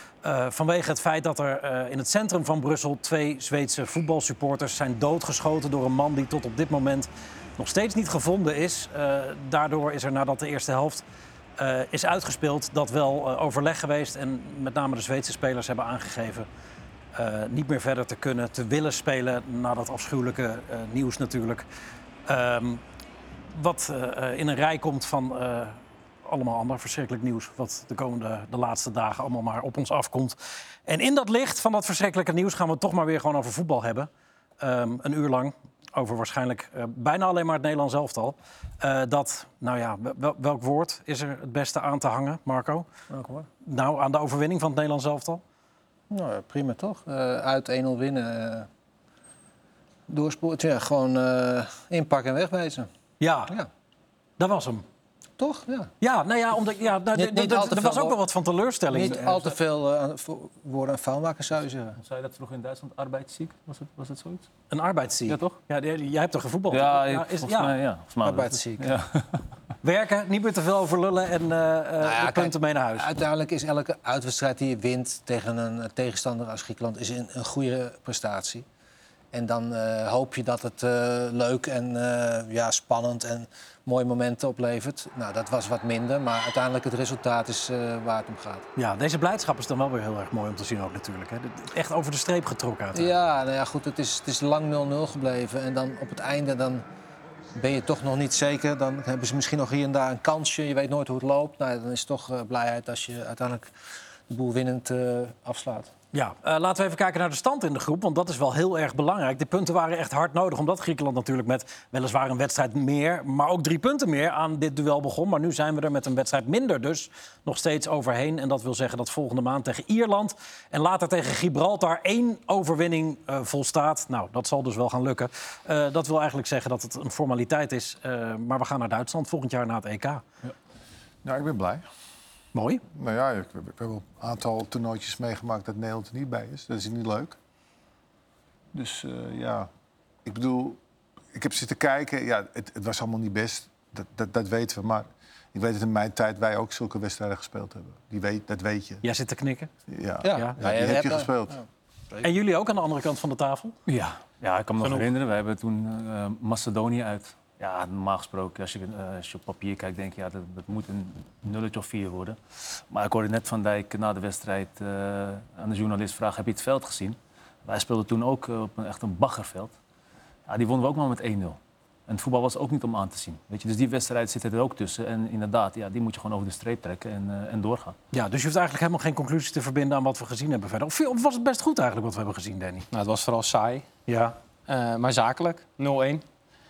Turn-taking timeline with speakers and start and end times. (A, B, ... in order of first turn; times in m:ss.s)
0:00.2-0:11.0 A
0:11.6-0:16.5 A
0:17.2-0:21.7 A
0:22.3-0:22.8 A
0:23.5-0:34.1 A
0:34.6-0:42.9 A
0:43.1-0:43.5 B
0:43.6-0:45.4 A
0:46.1-0:48.7 B
0:50.1-0:52.9 B
0:53.2-0:53.5 A
0:54.4-0:54.8 A
0:55.4-0:55.9 B
0:56.0-0:59.5 A
0:57.2-0:58.2 B
0:58.9-1:02.0 B
1:02.0-1:04.5 C
1:04.7-1:07.8 A
1:05.3-1:05.6 C
1:06.7-1:09.4 C
1:08.2-1:08.9 B
1:09.8-1:13.1 A
1:12.0-1:18.6 B
1:19.3-1:28.6 B
1:28.8-1:33.1 A
1:32.9-1:36.8 B
1:37.6-1:43.7 B
1:44.3-1:45.9 B
1:46.1-2:10.2 A
2:11.2-2:11.8 D
2:12.5-2:12.8 A
2:12.9-2:17.4 D
2:18.7-2:19.7 D
2:20.2-2:20.8 D
2:21.3-2:29.0 D
2:29.0-2:29.7 A
2:29.9-2:31.6 D
2:30.2-2:32.3 B
2:30.3-2:30.5 A
2:32.2-2:33.8 A
2:33.9-2:42.4 C
2:34.8-2:35.1 E
2:42.9-2:49.7 C
2:50.5-2:58.0 C
2:58.1-3:02.9 A
3:02.9-3:03.9 E
3:04.1-3:04.4 A
3:04.7-3:06.2 E